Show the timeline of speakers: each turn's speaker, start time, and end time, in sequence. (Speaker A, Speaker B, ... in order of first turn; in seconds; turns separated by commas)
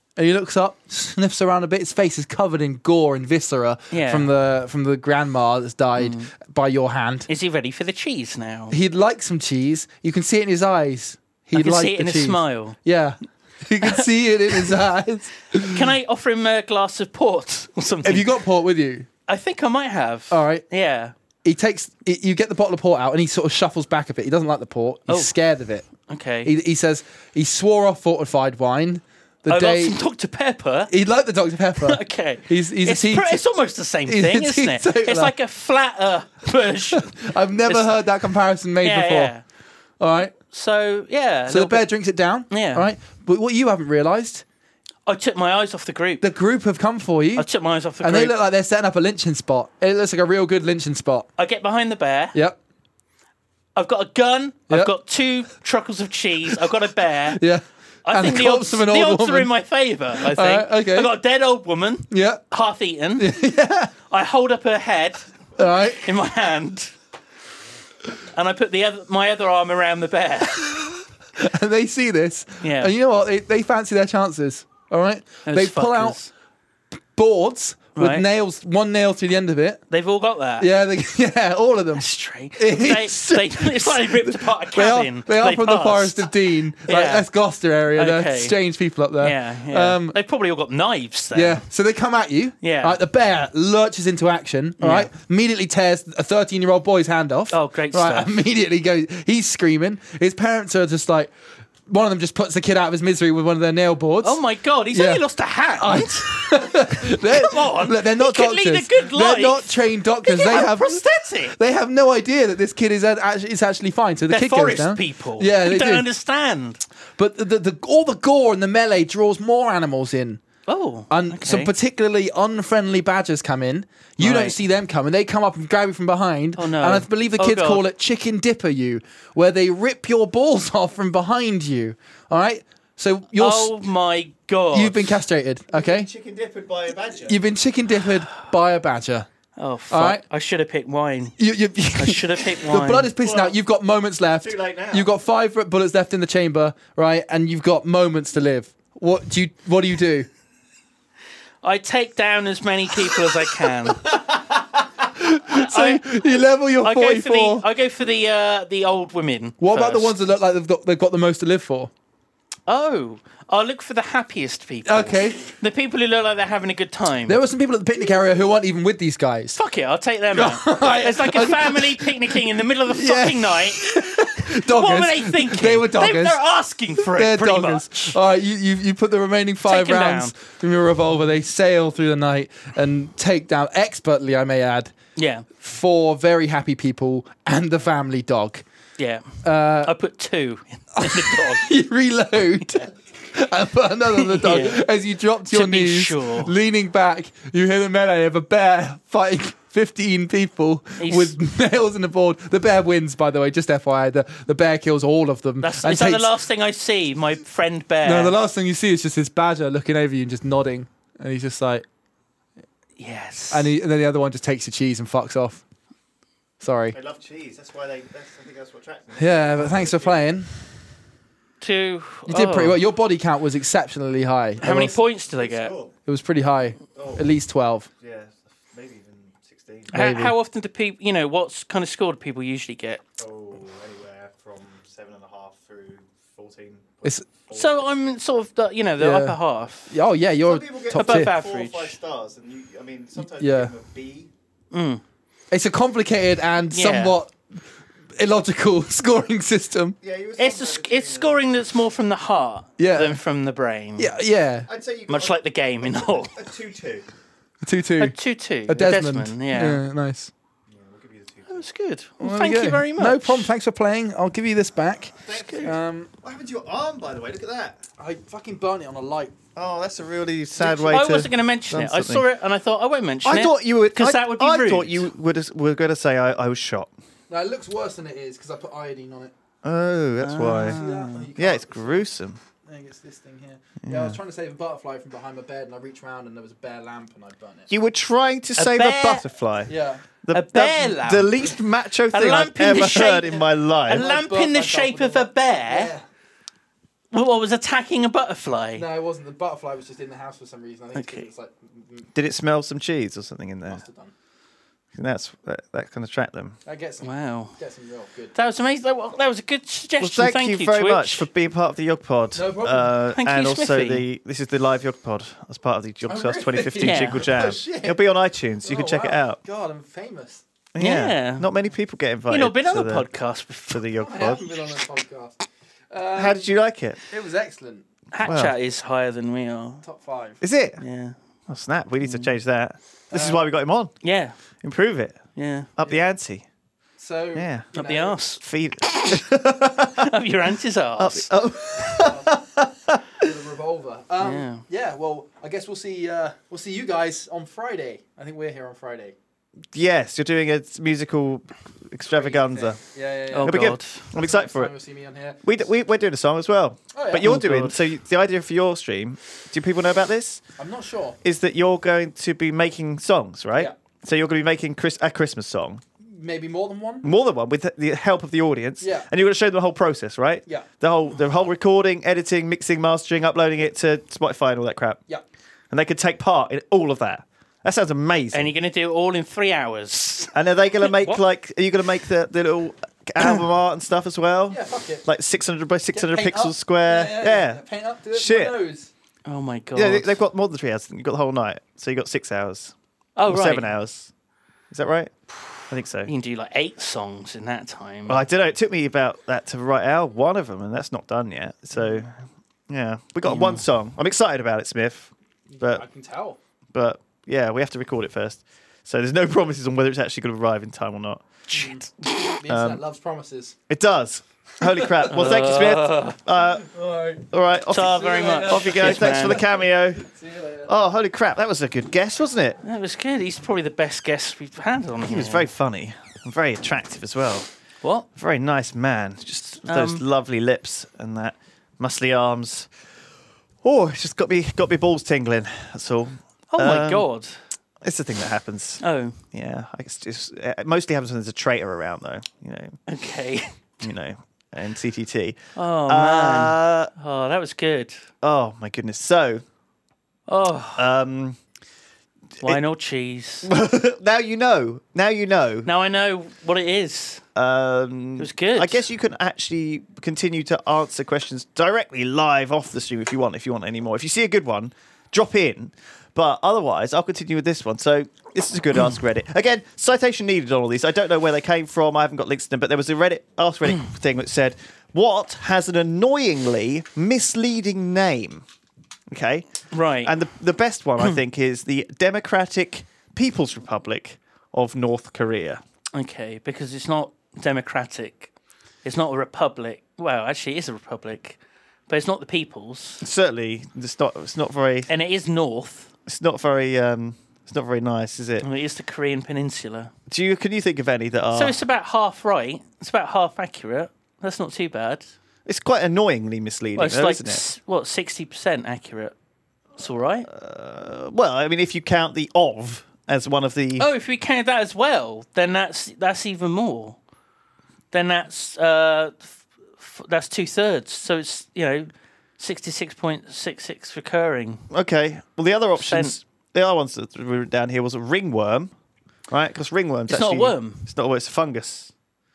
Speaker A: 0.2-7.3, Speaker B: 3.9-4.3, Speaker B: 6.0-6.3, Speaker B: 7.3-8.8, Speaker A: 8.7-15.9, Speaker B: 11.6-12.8, Speaker B: 15.6-18.3, Speaker A: 18.0-19.1, Speaker B: 19.3-21.1, Speaker A: 20.3-20.6, Speaker A: 21.4-25.9, Speaker B: 25.1-25.3, Speaker B: 26.1-26.5, Speaker A: 26.4-30.0, Speaker B: 29.5-30.9, Speaker A: 30.9-33.4, Speaker B: 31.8-38.0, Speaker A: 34.1-35.3, Speaker A: 36.9-39.3, Speaker B: 38.8-39.4, Speaker A: 40.0-40.4, Speaker B: 40.4-41.9, Speaker A: 41.5-44.4, Speaker B: 42.5-42.9, Speaker B: 45.1-46.2, Speaker A: 46.2-47.5, Speaker B: 47.4-48.4, Speaker A: 48.0-51.3, Speaker B: 51.4-52.4, Speaker B: 53.8-57.4, Speaker A: 57.3-59.5, Speaker B: 58.0-63.3, Speaker A: 60.1-61.1, Speaker A: 62.1-62.4, Speaker A: 63.2-63.9, Speaker B: 64.1-65.3, Speaker A: 65.6-66.0, Speaker B: 65.9-66.9, Speaker B: 68.3-70.8, Speaker A: 70.6-76.2, Speaker B: 72.6-72.9, Speaker B: 75.5-76.3, Speaker A: 77.1-79.8, Speaker B: 78.0-78.2, Speaker B: 79.9-80.7, Speaker A: 80.6-82.1, Speaker B: 82.0-86.3, Speaker A: 82.6-90.2, Speaker B: 86.8-87.3, Speaker B: 88.0-88.6, Speaker B: 89.2-91.6, Speaker A: 91.3-101.3, Speaker B: 92.6-93.0, Speaker B: 94.8-95.1, Speaker B: 97.5-98.3, Speaker A: 101.9-104.4, Speaker B: 104.2-111.5, Speaker A: 104.9-105.2, Speaker A: 105.8-116.1, Speaker B: 114.3-116.8, Speaker A: 117.2-120.4, Speaker B: 120.7-121.7, Speaker A: 121.1-133.7, Speaker B: 124.2-124.6, Speaker B: 126.6-127.8, Speaker B: 133.4-135.1, Speaker A: 134.7-136.1, Speaker C: 135.7-137.4, Speaker A: 137.2-139.3, Speaker B: 139.6-141.4, Speaker A: 139.9-140.2, Speaker A: 141.4-150.3, Speaker B: 141.9-143.1, Speaker C: 143.2-143.6, Speaker C: 144.4-145.1, Speaker B: 151.6-154.2, Speaker A: 153.1-157.7, Speaker B: 155.5-160.2, Speaker A: 159.6-161.9, Speaker B: 162.7-167.4, Speaker A: 164.8-165.5, Speaker A: 167.3-169.6, Speaker B: 169.6-178.2, Speaker A: 170.3-176.4, Speaker A: 177.0-184.9, Speaker B: 179.7-180.3, Speaker B: 185.2-185.5, Speaker A: 185.6-188.6, Speaker B: 189.0-191.7, Speaker A: 189.4-189.9, Speaker A: 191.0-206.3, Speaker B: 192.6-192.9, Speaker B: 194.2-194.8, Speaker B: 195.5-196.5, Speaker B: 201.0-201.3, Speaker B: 205.6-208.3, Speaker A: 208.0-211.9, Speaker B: 213.0-213.7, Speaker A: 213.5-215.6, Speaker A: 216.6-217.0, Speaker C: 216.9-220.2, Speaker A: 219.2-220.7, Speaker B: 221.6-222.8, Speaker A: 222.3-225.0, Speaker B: 224.6-225.8, Speaker C: 225.3-225.9, Speaker A: 226.1-227.9, Speaker C: 227.0-227.3, Speaker C: 228.0-229.9, Speaker A: 229.9-230.3, Speaker B: 229.9-233.0, Speaker C: 233.2-237.8, Speaker B: 237.5-239.9, Speaker A: 239.0-239.4, Speaker A: 239.9-241.3, Speaker C: 240.4-244.3, Speaker B: 240.9-242.0, Speaker A: 243.2-243.7, Speaker B: 244.7-245.0, Speaker A: 245.5-247.6, Speaker B: 246.7-247.2, Speaker A: 248.2-250.0, Speaker C: 250.0-251.4, Speaker B: 250.4-254.1, Speaker A: 252.8-253.2, Speaker A: 254.0-254.7, Speaker C: 254.7-257.1, Speaker B: 255.1-256.4, Speaker A: 257.6-260.3, Speaker B: 258.0-259.8, Speaker C: 260.7-261.6, Speaker B: 261.5-263.5, Speaker A: 262.2-266.1, Speaker C: 265.2-267.8, Speaker B: 265.4-265.7, Speaker A: 268.0-269.4, Speaker C: 269.6-272.2, Speaker B: 270.6-275.1, Speaker C: 273.2-276.9, Speaker A: 277.3-279.3, Speaker C: 279.6-280.8, Speaker B: 280.2-281.3, Speaker A: 280.8-282.1, Speaker C: 281.4-282.4, Speaker A: 282.7-287.7, Speaker C: 283.8-284.2, Speaker C: 287.7-289.7, Speaker B: 288.6-289.3, Speaker A: 289.7-290.0, Speaker C: 290.2-294.1, Speaker B: 290.3-291.5, Speaker B: 292.1-295.9, Speaker A: 293.9-296.1, Speaker B: 297.1-298.9, Speaker A: 298.8-302.1, Speaker B: 300.9-301.3, Speaker C: 302.1-303.8, Speaker A: 303.7-304.1, Speaker C: 304.9-306.6, Speaker A: 306.7-308.3, Speaker B: 307.0-307.6, Speaker B: 308.3-311.3, Speaker C: 310.0-319.4, Speaker A: 312.4-313.0, Speaker B: 313.1-314.1, Speaker A: 316.1-318.0, Speaker B: 316.8-317.2, Speaker A: 318.6-320.4, Speaker C: 320.8-323.1, Speaker B: 320.8-321.5, Speaker B: 322.3-323.8, Speaker C: 323.7-324.5, Speaker A: 324.0-327.9, Speaker C: 326.1-327.0, Speaker B: 328.1-329.8, Speaker C: 328.2-328.5, Speaker A: 329.8-330.4, Speaker C: 330.4-330.8, Speaker B: 330.8-331.2, Speaker C: 331.5-333.9, Speaker A: 333.1-333.4, Speaker B: 334.0-334.4, Speaker C: 334.6-335.2, Speaker B: 335.4-335.7, Speaker C: 335.8-336.4, Speaker A: 337.0-338.2, Speaker C: 337.4-337.7, Speaker B: 337.8-338.4, Speaker C: 338.4-340.1, Speaker B: 340.0-341.3, Speaker C: 341.0-343.2, Speaker A: 341.8-342.3, Speaker A: 343.2-349.1, Speaker B: 344.2-344.6, Speaker C: 349.7-352.8, Speaker A: 352.1-355.4, Speaker B: 353.3-354.1, Speaker C: 353.4-354.7, Speaker C: 355.4-360.4, Speaker A: 356.9-357.4, Speaker B: 357.2-357.8, Speaker A: 360.6-361.2, Speaker C: 361.2-365.8, Speaker A: 366.1-367.1, Speaker C: 367.0-375.0, Speaker A: 368.8-369.1, Speaker C: 375.7-378.5, Speaker B: 378.3-381.2, Speaker C: 380.3-388.6, Speaker A: 384.5-385.1, Speaker A: 385.9-388.9, Speaker B: 389.3-390.2, Speaker C: 389.8-392.7, Speaker B: 393.2-393.7, Speaker C: 393.3-394.1, Speaker C: 394.7-395.1, Speaker C: 395.7-396.1, Speaker B: 396.1-398.2, Speaker C: 398.1-402.1, Speaker C: 402.7-405.9, Speaker B: 403.2-403.6, Speaker A: 405.5-406.4, Speaker C: 406.7-411.7, Speaker A: 411.5-413.6, Speaker C: 412.4-412.8, Speaker C: 413.7-420.1, Speaker A: 414.6-415.3, Speaker B: 415.1-416.2, Speaker A: 416.6-417.3, Speaker B: 417.7-419.4, Speaker A: 417.9-420.7, Speaker C: 420.7-422.6, Speaker B: 422.6-425.5, Speaker C: 425.0-427.5, Speaker C: 428.2-432.7, Speaker B: 429.7-430.0, Speaker C: 433.6-437.1, Speaker B: 436.5-437.4, Speaker C: 437.8-442.8, Speaker B: 438.8-439.2, Speaker B: 442.9-443.5, Speaker C: 443.8-446.9, Speaker B: 445.6-448.0, Speaker C: 448.2-449.4, Speaker B: 450.3-450.9, Speaker C: 450.8-451.4, Speaker B: 452.4-453.5, Speaker C: 453.4-455.7, Speaker B: 455.6-457.2, Speaker C: 457.4-478.4, Speaker B: 458.2-458.8, Speaker C: 479.1-479.5, Speaker B: 479.7-480.1, Speaker C: 480.0-485.6, Speaker B: 485.9-488.3, Speaker B: 488.8-493.0, Speaker C: 493.0-494.9, Speaker B: 494.9-495.9, Speaker C: 496.1-498.5, Speaker B: 498.4-499.9, Speaker C: 500.1-501.6, Speaker B: 501.3-505.1, Speaker C: 505.5-507.4, Speaker B: 506.8-509.1, Speaker B: 509.8-510.3, Speaker C: 510.3-513.9, Speaker B: 513.8-517.0, Speaker B: 517.9-524.6, Speaker C: 524.7-528.7, Speaker B: 525.8-526.2, Speaker C: 529.3-531.9, Speaker B: 530.1-530.9